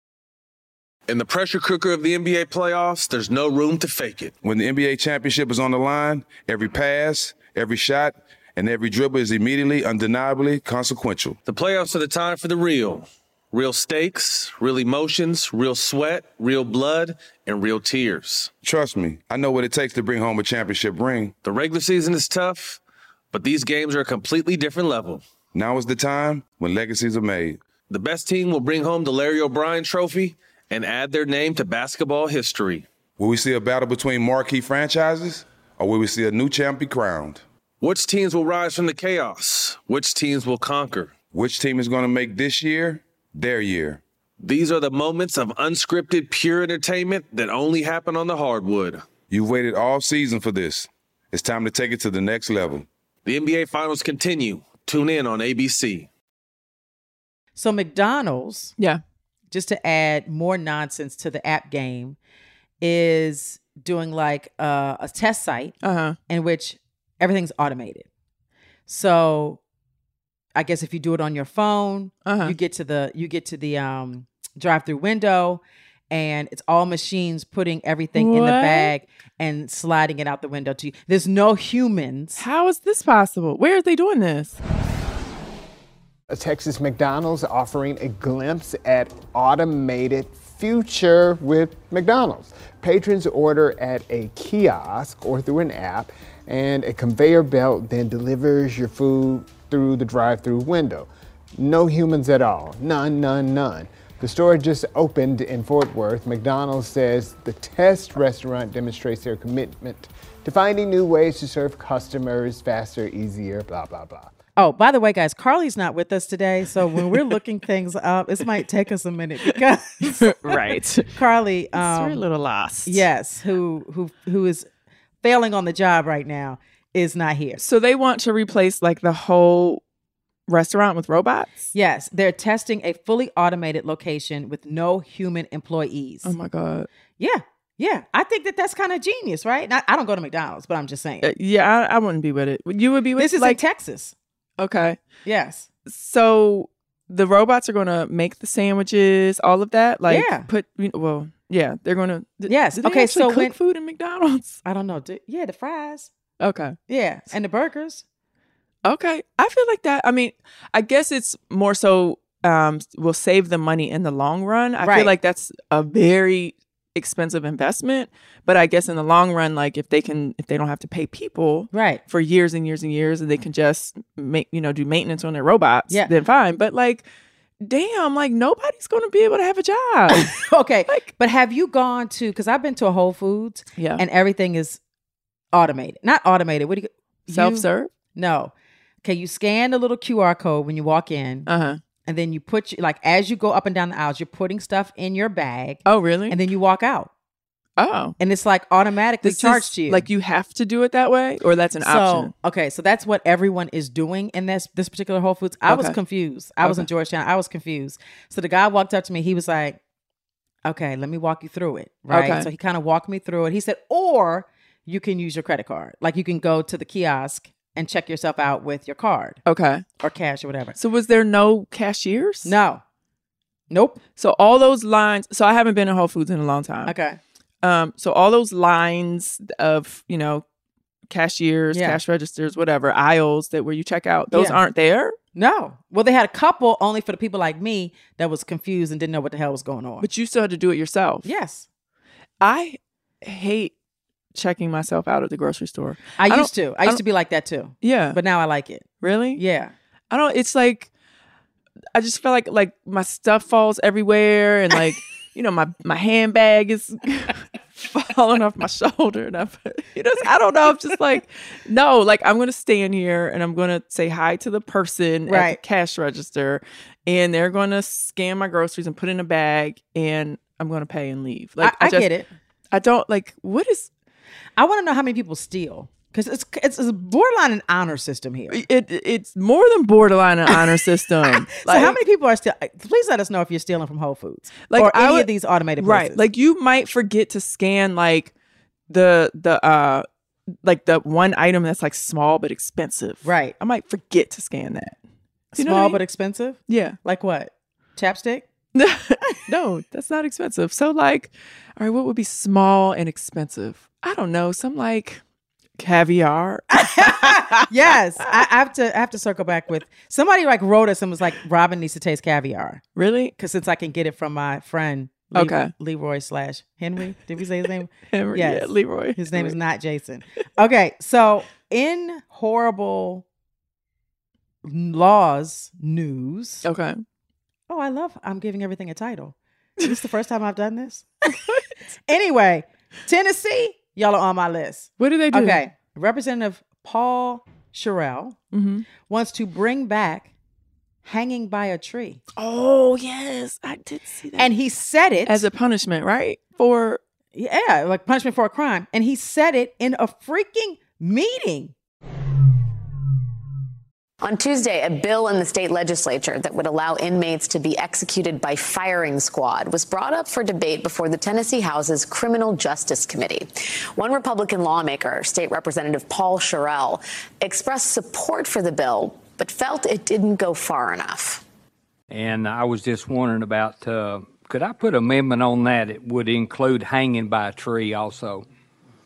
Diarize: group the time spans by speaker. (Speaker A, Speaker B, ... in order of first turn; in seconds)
Speaker A: 1.1-4.3, 11.4-18.5, 21.4-22.8, 23.3-25.2, 27.9-32.9, 37.8-41.1, 44.4-49.0, 53.2-56.1
Speaker B: 4.4-11.4, 18.6-21.4, 25.5-27.6, 33.2-37.4, 41.3-44.0, 49.3-52.9
Speaker C: 57.6-58.7, 59.5-62.2, 62.8-65.7, 66.3-68.1, 68.9-69.6, 70.5-82.4, 114.6-122.2, 122.9-124.7, 125.2-127.6, 131.7-136.3, 137.2-141.3, 143.2-144.1, 145.2-145.7, 150.1-150.5, 152.5-153.5, 154.6-156.1, 156.9-158.0, 164.8-165.1, 171.7-172.0, 180.1-184.8, 185.5-188.5, 189.0-191.5, 192.1-197.1, 198.2-200.0, 201.8-209.8, 210.6-219.4, 220.0-220.8, 222.4-222.8, 223.7-224.0, 226.9-227.2, 231.7-232.0, 234.3-234.6, 235.3-240.1, 241.2-241.7, 246.2-249.7, 265.3-265.6, 271.6-272.3, 274.6-278.6, 281.3-286.2, 293.2-293.5, 295.6-298.4, 306.8-312.8, 313.4-323.2, 324.6-326.6, 327.7-338.4, 339.0-340.3, 341.1-342.2, 344.4-345.4, 347.4-351.7
Speaker D: 65.8-66.2, 72.2-72.6, 78.1-78.9, 82.4-84.6, 120.2-121.1, 121.7-123.1, 127.6-129.8, 130.5-131.6, 136.2-136.9, 141.2-143.6, 144.6-145.0, 145.9-154.6, 156.4-156.8, 158.8-177.1, 177.6-180.3, 183.8-184.0, 187.3-187.9, 191.5-191.8, 195.9-196.4, 197.8-198.2, 199.2-202.3, 205.7-206.0, 206.6-206.9, 212.1-212.5, 219.4-219.8, 220.8-222.6, 224.2-226.9, 227.6-230.4, 231.1-235.1, 240.0-241.3, 242.4-243.7, 244.3-247.0, 247.8-248.2, 249.0-249.4, 250.1-250.9, 251.9-272.1, 272.7-273.9, 278.5-282.0, 284.7-288.3, 288.9-290.1, 290.6-295.0, 295.6-296.0, 296.7-297.0, 298.7-305.2, 305.8-308.4, 312.9-313.3, 315.3-315.7, 318.1-319.6, 326.6-327.0, 335.0-335.6, 338.5-338.9, 342.4-344.5, 345.2-347.0
Speaker E: 86.3-114.3
Speaker F: 354.2-371.4
Speaker G: 372.1-378.4